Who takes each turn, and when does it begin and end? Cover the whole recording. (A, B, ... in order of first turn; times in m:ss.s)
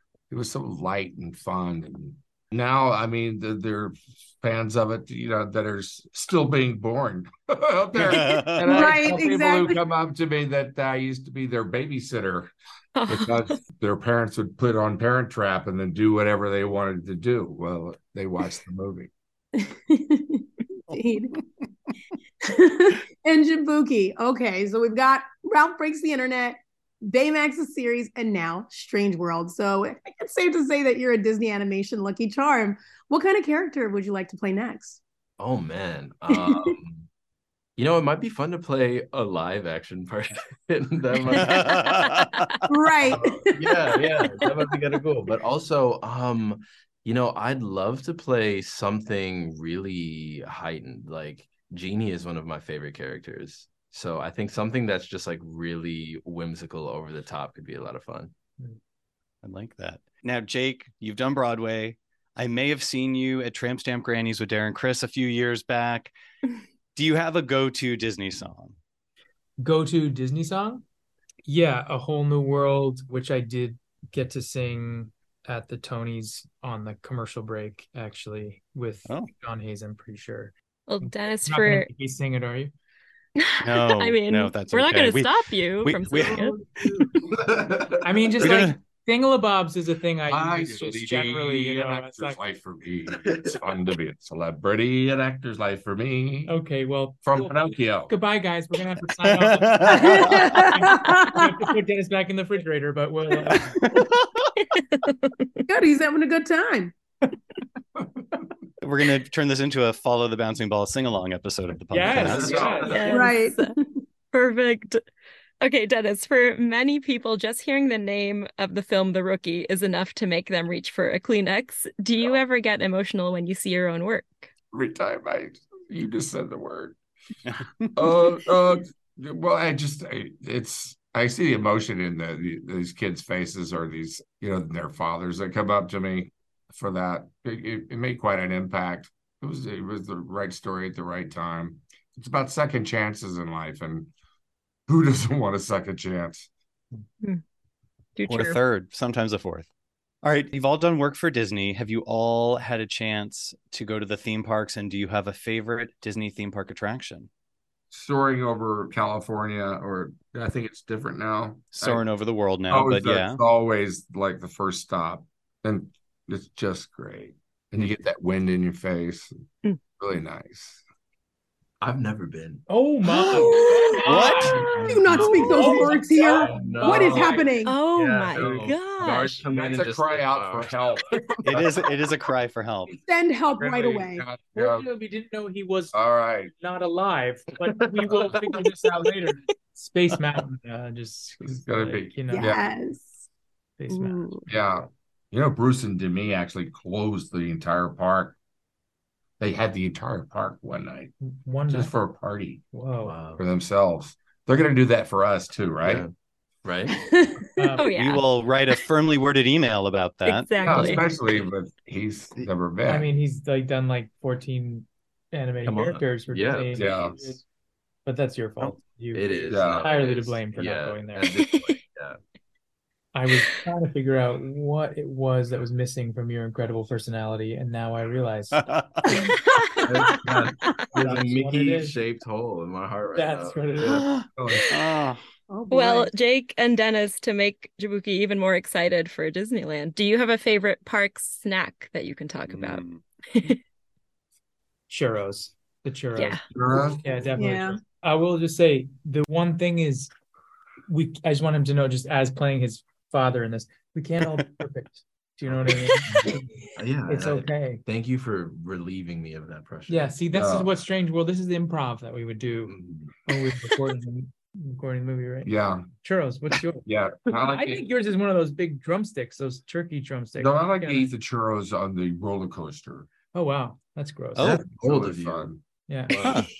0:00.3-0:12.5 A
0:08.0-0:08.9 B
0:08.6-0:09.8 C
0:13.0-0:13.5 D
0:13.1-0:19.1 A
0:19.6-0:21.4 C
0:22.4-0:35.0 C
0:35.4-0:37.1 E
0:36.3-0:36.7 C
0:37.8-0:41.8 E
0:41.4-0:42.5 B
0:42.7-0:44.6 C
0:43.1-0:58.3 E
0:59.4-1:06.1 B
1:06.9-1:08.7 B
1:09.6-1:10.8 F
1:11.5-1:22.7 F
1:20.9-1:21.9 D
1:23.4-1:26.6 D
1:23.6-1:26.4 B
1:26.1-1:27.3 F
1:27.3-1:28.1 E
1:28.0-1:32.4 F
1:28.4-1:28.8 B
1:30.3-1:36.6 A
1:36.5-1:43.8 F
1:37.2-1:38.1 A
1:39.2-1:40.4 B
1:39.9-1:41.8 C
1:43.5-1:44.5 B
1:44.6-1:45.6 D
1:45.7-1:46.9 C
1:48.8-1:52.6 B
1:51.9-1:53.4 F
1:52.1-1:52.9 A
1:52.1-1:53.1 E
1:52.8-1:53.7 D
1:53.1-1:53.8 C
1:54.3-1:55.0 D
1:55.6-2:04.5 D
2:04.7-2:07.0 A
2:07.5-2:07.9 B
2:07.9-2:24.1 A
2:24.9-2:26.5 A
2:28.2-2:28.6 D
2:28.3-2:29.7 B
2:30.2-2:37.3 B
2:37.9-2:42.0 A
2:41.7-2:43.4 B
2:42.7-2:49.3 A
2:50.0-2:50.8 A
2:51.8-2:52.7 E
2:52.7-2:57.3 F
2:53.1-2:54.3 C
2:53.6-2:54.8 D
2:54.0-2:54.7 B
2:54.8-2:57.8 C
2:55.1-2:57.5 A
2:55.2-2:55.7 E
2:56.3-3:01.0 E
2:57.6-2:59.4 D
2:58.4-2:58.7 F
2:59.4-3:01.8 A
3:01.4-3:02.9 B
3:02.9-3:04.3 C
3:03.6-3:05.9 F
3:03.8-3:04.9 A
3:05.9-3:06.5 A
3:06.6-3:12.6 F
3:08.1-3:08.6 E
3:11.4-3:12.6 A
3:12.3-3:13.3 C
3:13.8-3:14.4 F
3:13.9-3:14.5 C
3:14.5-3:18.4 A
3:19.4-3:21.1 A
3:21.2-3:21.9 F
3:21.7-3:22.6 A
3:22.7-3:23.2 F
3:23.0-3:23.4 E
3:23.4-3:26.0 A
3:25.8-3:26.1 E
3:26.6-3:27.0 E
3:26.9-3:27.8 C
3:27.6-3:27.9 F
3:27.8-3:28.2 D
3:27.9-3:30.5 B
3:30.2-3:31.0 D
3:30.6-3:33.1 A
3:30.7-3:31.4 E
3:32.9-3:37.4 F
3:35.6-3:36.9 E
3:36.8-3:37.2 A
3:38.0-3:41.3 F
3:39.1-3:42.2 E
3:39.5-3:39.9 A
3:43.1-3:50.1 F
3:48.6-3:49.0 B
3:49.2-3:49.8 D
3:49.8-3:54.1 E
3:50.9-3:52.0 F
3:53.1-3:54.2 F
3:53.9-3:55.2 B
3:54.3-3:54.7 A
3:55.5-3:56.1 C
3:55.7-4:02.8 D
4:02.5-4:03.0 B
4:04.9-4:10.1 F
4:07.4-4:07.8 C
4:10.9-4:17.8 F
4:15.4-4:20.2 E
4:19.9-4:31.1 F
4:20.3-4:20.7 A
4:22.7-4:23.2 E
4:25.4-4:25.9 A
4:26.8-4:27.9 A
4:30.4-4:33.1 A
4:33.3-4:34.7 F
4:34.4-4:35.5 E
4:34.7-4:35.6 A
4:35.9-4:36.4 F
4:36.1-4:36.4 E
4:36.2-4:36.5 B